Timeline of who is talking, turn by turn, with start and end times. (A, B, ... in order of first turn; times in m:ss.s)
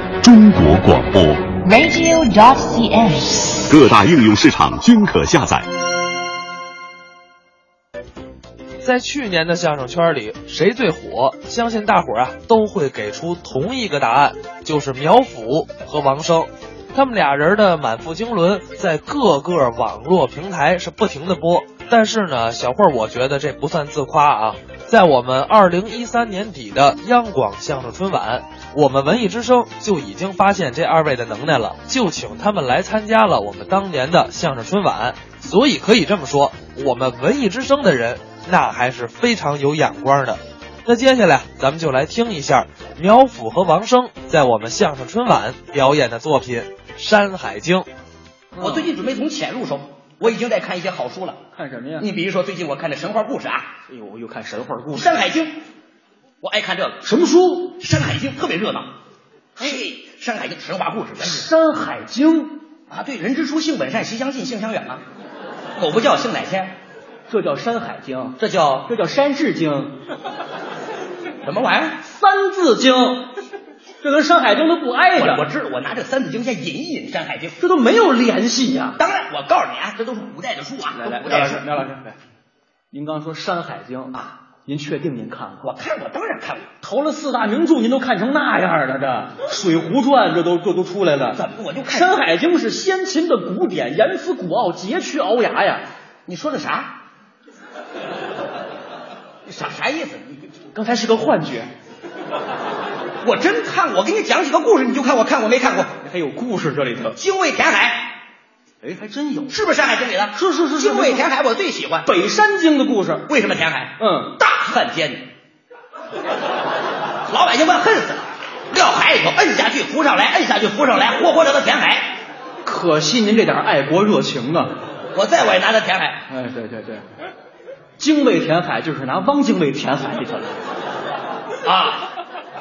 0:00.2-0:01.6 A
0:01.6-0:03.6 B
0:03.7-0:05.7 A
0:08.8-0:47.9 C
0:48.5-0:48.9 D
0:48.6-0:51.4 E
0:51.5-0:52.1 D
0:52.0-0:53.7 E
0:53.9-0:55.2 D
0:54.9-0:55.5 E
0:56.4-0:57.0 E
0:57.0-0:57.8 D
0:57.7-0:58.9 E
0:59.6-1:01.5 E
1:01.2-1:02.6 D
1:02.9-1:05.0 E
1:05.8-1:06.7 E
1:07.3-1:10.0 D
1:08.4-1:08.9 E
1:11.4-1:12.0 E
1:12.0-1:13.3 D
1:14.0-1:15.5 D
1:15.2-1:17.6 E
1:17.6-1:19.0 D
1:19.0-1:21.6 E
1:20.9-1:22.2 D
1:22.9-1:25.7 D
1:25.6-1:26.7 E
1:26.8-1:35.8 D
1:31.3-1:32.2 E
1:36.3-1:36.9 E
1:39.4-1:40.5 E
1:40.7-1:41.7 D
1:43.2-1:45.9 E
1:46.0-1:47.2 D
1:47.1-1:48.1 E
1:48.8-1:49.6 D
1:49.5-1:52.1 E
1:50.3-1:51.2 D
1:52.0-1:53.3 D
1:53.3-1:55.2 E
1:54.0-1:54.4 D
1:57.3-2:02.2 E
2:02.6-2:04.8 D
2:05.1-2:06.2 E
2:06.3-2:07.0 D
2:08.0-2:10.5 D
2:11.6-2:12.0 E